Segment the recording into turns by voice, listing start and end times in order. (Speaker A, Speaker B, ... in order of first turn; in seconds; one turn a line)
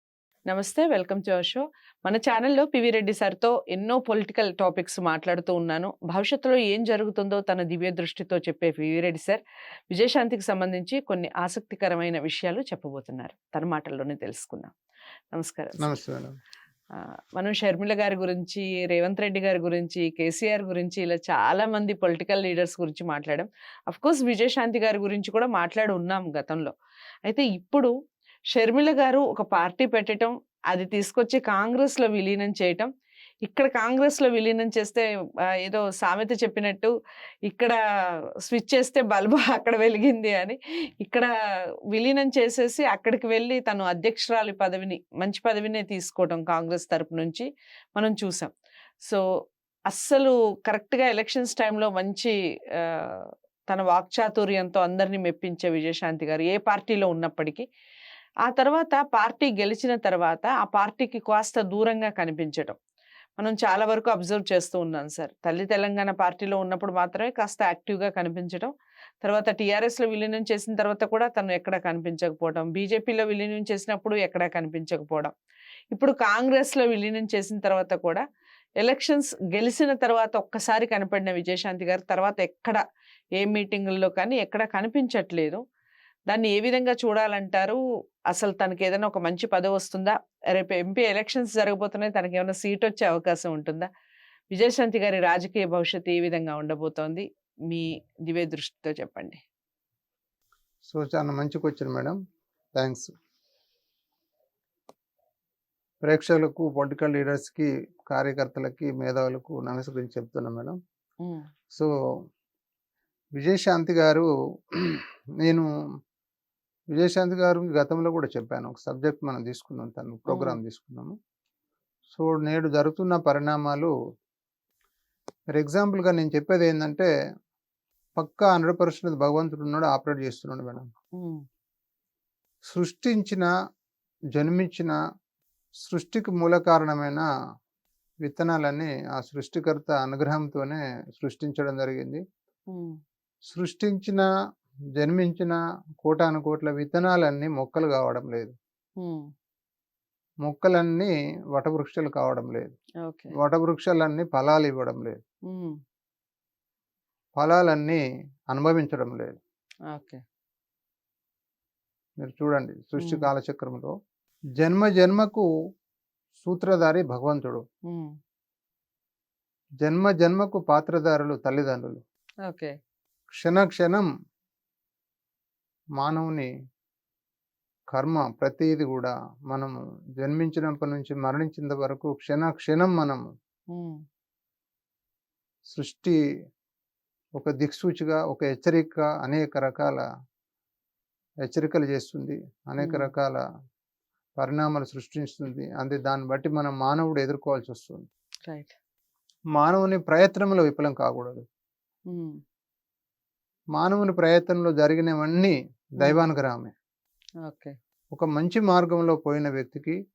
Speaker A: 0.5-14.7
Speaker A: 15.3-15.9
Speaker B: 15.8-16.3
Speaker A: 17.0-26.7
Speaker A: 27.3-27.9
Speaker A: 28.6-32.9
Speaker A: 33.4-35.1
Speaker A: 35.6-36.9
Speaker A: 37.5-37.8
Speaker A: 38.4-41.3
Speaker A: 41.9-49.2
Speaker A: 49.9-57.6
Speaker A: 58.5-62.8
Speaker A: 63.4-68.7
Speaker A: 69.2-75.3
Speaker A: 75.9-78.2
Speaker A: 78.8-82.8
Speaker A: 83.4-85.6
Speaker A: 86.3-93.9
Speaker A: 94.5-99.4
Speaker B: 100.8-102.2
Speaker B: 102.8-103.1
Speaker B: 106.0-110.8
Speaker B: 113.4-115.7
Speaker B: 116.9-121.1
Speaker A: 120.3-120.6
Speaker B: 122.1-123.9
Speaker B: 125.5-127.1
Speaker B: 128.2-130.9
Speaker A: 131.2-131.4
Speaker B: 132.7-133.5
Speaker B: 134.3-135.0
Speaker B: 135.8-137.3
Speaker B: 138.2-142.2
Speaker B: 143.5-144.2
Speaker B: 145.0-148.5
Speaker A: 149.0-149.3
Speaker B: 150.4-152.7
Speaker A: 153.0-153.3
Speaker B: 153.4-155.2
Speaker A: 155.5-155.8
Speaker B: 157.4-159.4
Speaker A: 159.9-160.2
Speaker B: 162.2-163.9
Speaker A: 163.0-163.3
Speaker B: 164.6-165.4
Speaker B: 166.4-167.6
Speaker B: 169.8-172.0
Speaker A: 172.5-172.7
Speaker B: 173.3-174.1
Speaker B: 176.0-176.5
Speaker B: 177.9-183.2
Speaker A: 183.7-184.0
Speaker B: 185.7-186.2
Speaker B: 187.4-190.0
Speaker B: 191.5-193.4
Speaker A: 192.8-193.1
Speaker B: 194.4-198.1
Speaker A: 198.5-198.7
Speaker B: 199.6-201.4
Speaker A: 202.1-202.4
Speaker B: 203.8-206.7
Speaker A: 206.0-206.3
Speaker A: 207.4-207.7
Speaker B: 208.1-210.0